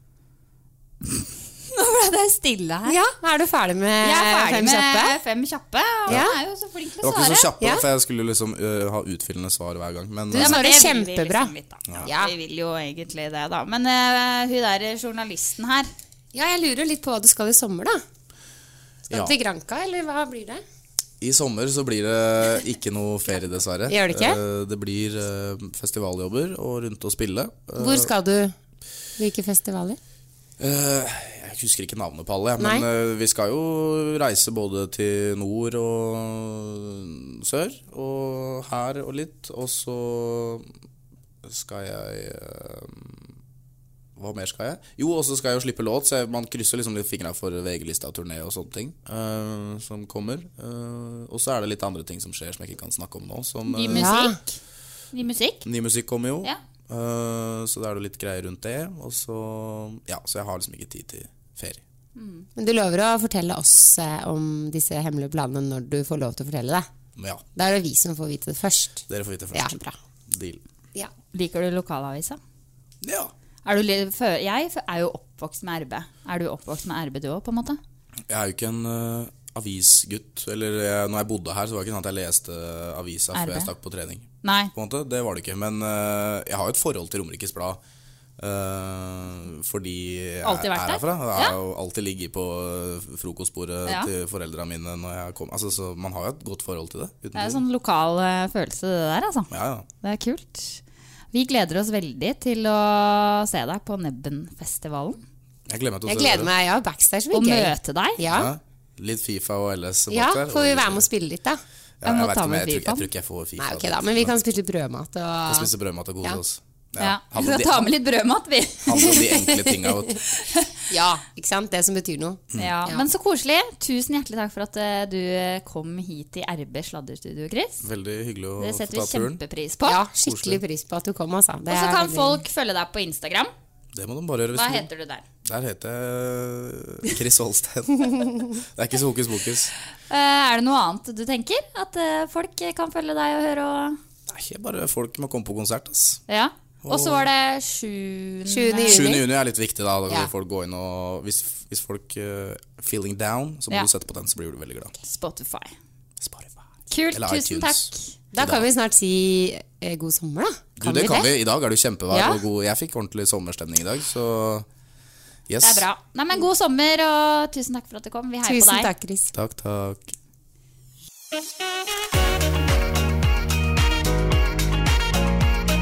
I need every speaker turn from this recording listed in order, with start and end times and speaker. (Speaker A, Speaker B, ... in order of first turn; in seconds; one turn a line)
Speaker A: 1.0-3.0
Speaker B: 2.9-5.2
Speaker A: 4.0-7.5
Speaker B: 6.1-6.3
Speaker C: 7.0-10.9
Speaker B: 7.6-7.8
Speaker B: 10.3-12.3
Speaker A: 10.3-15.9
Speaker B: 16.3-18.0
Speaker C: 19.1-19.3
Speaker B: 19.1-20.6
Speaker C: 21.2-28.1
Speaker B: 23.9-24.4
Speaker B: 27.8-28.5
Speaker B: 29.2-30.0
Speaker C: 30.6-40.7
Speaker B: 32.6-32.8
Speaker C: 41.4-43.4
Speaker C: 44.1-54.1
Speaker A: 53.7-54.5
Speaker B: 53.9-54.4
Speaker A: 55.1-55.6
Speaker C: 55.6-61.8
Speaker A: 62.1-62.5
Speaker B: 62.5-66.9
Speaker C: 67.2-67.4
Speaker B: 67.5-69.0
Speaker C: 69.1-70.6
Speaker B: 69.5-70.0
Speaker A: 71.3-72.4
Speaker C: 73.0-73.3
Speaker A: 73.6-77.8
Speaker C: 78.3-87.8
Speaker A: 83.3-83.7
Speaker A: 84.4-84.7
Speaker C: 88.4-97.6
Speaker A: 90.4-91.5
Speaker A: 93.8-94.1
Speaker A: 97.3-99.5
Speaker C: 99.5-99.9
Speaker A: 100.0-100.8
Speaker A: 101.3-105.2
Speaker C: 105.7-106.5
Speaker B: 106.0-108.5
Speaker A: 107.3-108.2
Speaker C: 108.3-111.1
Speaker B: 110.1-111.6
Speaker C: 112.0-114.4
Speaker A: 112.0-113.0
Speaker B: 113.6-115.7
Speaker C: 115.5-117.9
Speaker A: 117.0-119.1
Speaker C: 118.8-120.2
Speaker B: 119.0-120.1
Speaker A: 120.5-120.7
Speaker B: 120.9-123.0
Speaker A: 122.5-127.8
Speaker C: 127.8-129.4
Speaker A: 128.6-130.0
Speaker B: 129.8-132.4
Speaker C: 130.2-130.6
Speaker A: 131.7-133.5
Speaker C: 133.9-134.9
Speaker A: 134.5-135.2
Speaker C: 135.4-139.7
Speaker A: 140.1-144.0
Speaker C: 144.3-146.2
Speaker A: 146.3-149.1
Speaker C: 146.8-147.3
Speaker B: 148.5-149.3
Speaker C: 148.8-154.9
Speaker A: 155.0-155.7
Speaker C: 156.2-158.7
Speaker A: 156.9-158.1
Speaker B: 158.3-161.3
Speaker C: 160.8-164.7
Speaker B: 162.1-162.4
Speaker C: 165.5-165.8
Speaker A: 165.6-168.9
Speaker B: 168.4-169.3
Speaker C: 169.3-170.1